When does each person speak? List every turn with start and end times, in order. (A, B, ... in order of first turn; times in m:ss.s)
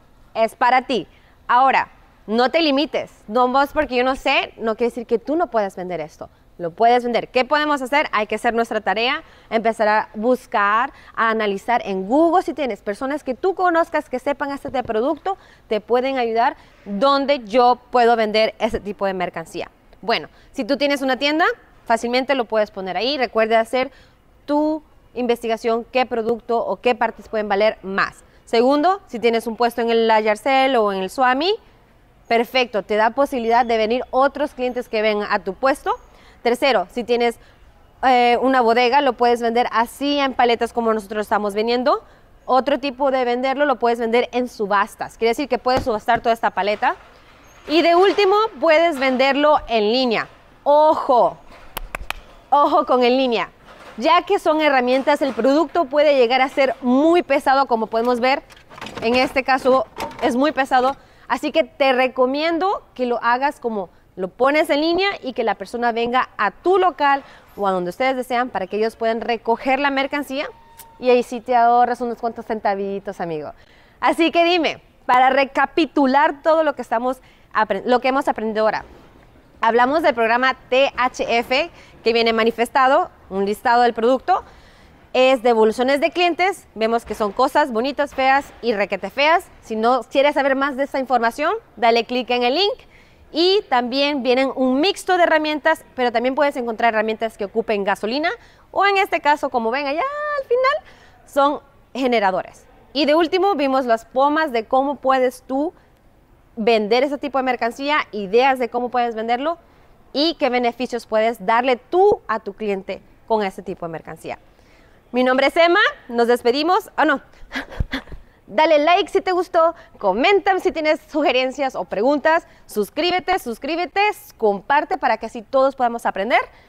0:00.3-0:23.9 A
0:24.4-0:31.6 A
0:32.3-0:37.4 A
0:38.0-0:46.9 A
0:47.7-0:51.4 A
0:52.5-0:58.4 A
0:59.0-1:10.5 A
1:11.0-1:18.8 A
1:19.6-1:24.4 A
1:25.1-1:45.7 A
1:46.6-1:49.6 A
1:50.1-1:54.4 A
1:55.1-2:06.4 A